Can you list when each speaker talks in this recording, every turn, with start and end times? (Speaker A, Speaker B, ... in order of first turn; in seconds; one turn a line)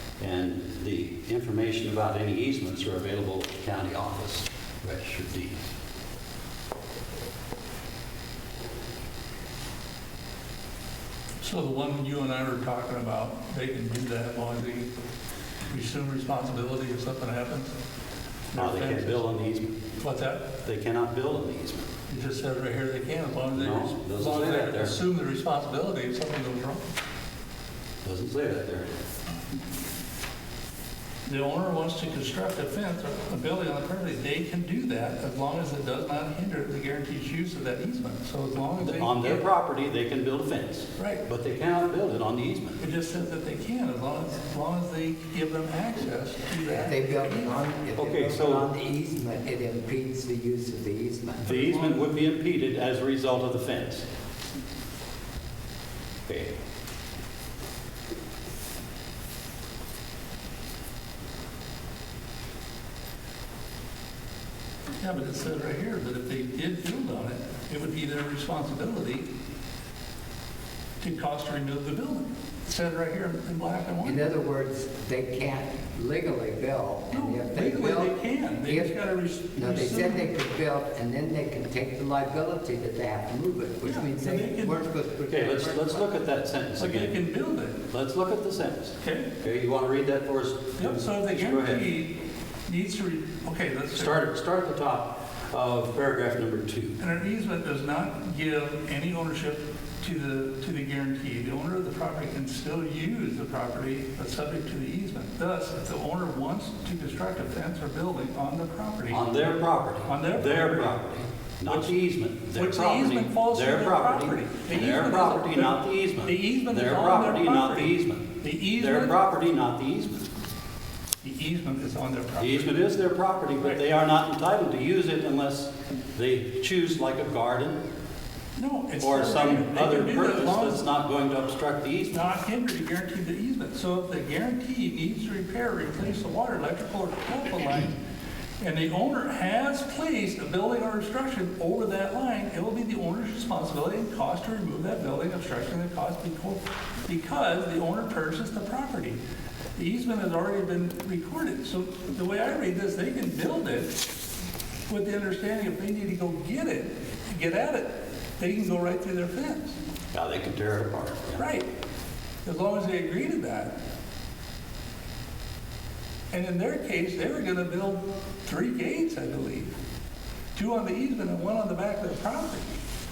Speaker A: 0.2-5.7
Speaker B: 11.4-14.9
Speaker B: 15.7-17.7
Speaker B: 18.5-19.3
Speaker A: 18.6-19.8
Speaker B: 20.0-20.4
Speaker A: 20.6-21.9
Speaker B: 22.1-26.8
Speaker A: 23.5-25.0
Speaker A: 28.0-28.9
Speaker B: 31.3-39.5
Speaker A: 38.8-42.8
Speaker B: 41.0-41.2
Speaker B: 42.8-47.5
Speaker C: 46.7-51.5
Speaker A: 48.0-48.7
Speaker A: 51.4-54.1
Speaker B: 51.5-52.1
Speaker A: 56.3-56.5
Speaker B: 65.0-69.3
Speaker B: 71.0-74.3
Speaker C: 74.0-78.9
Speaker B: 77.1-80.3
Speaker C: 79.6-86.1
Speaker B: 83.8-84.9
Speaker A: 85.3-87.2
Speaker B: 86.8-87.8
Speaker A: 87.9-91.9
Speaker B: 89.0-89.3
Speaker B: 90.8-92.2
Speaker B: 92.7-94.2
Speaker A: 93.9-97.0
Speaker B: 97.0-109.5
Speaker A: 109.1-120.3
Speaker B: 110.0-111.0
Speaker B: 111.7-119.2
Speaker B: 121.2-122.7
Speaker A: 122.4-127.8
Speaker B: 128.6-130.8
Speaker A: 129.0-132.2
Speaker B: 132.1-138.0
Speaker B: 138.6-149.2
Speaker B: 149.8-154.0
Speaker B: 154.9-159.7
Speaker A: 160.1-161.4
Speaker B: 161.4-161.7
Speaker B: 162.4-163.7
Speaker B: 166.3-169.7
Speaker B: 170.6-172.7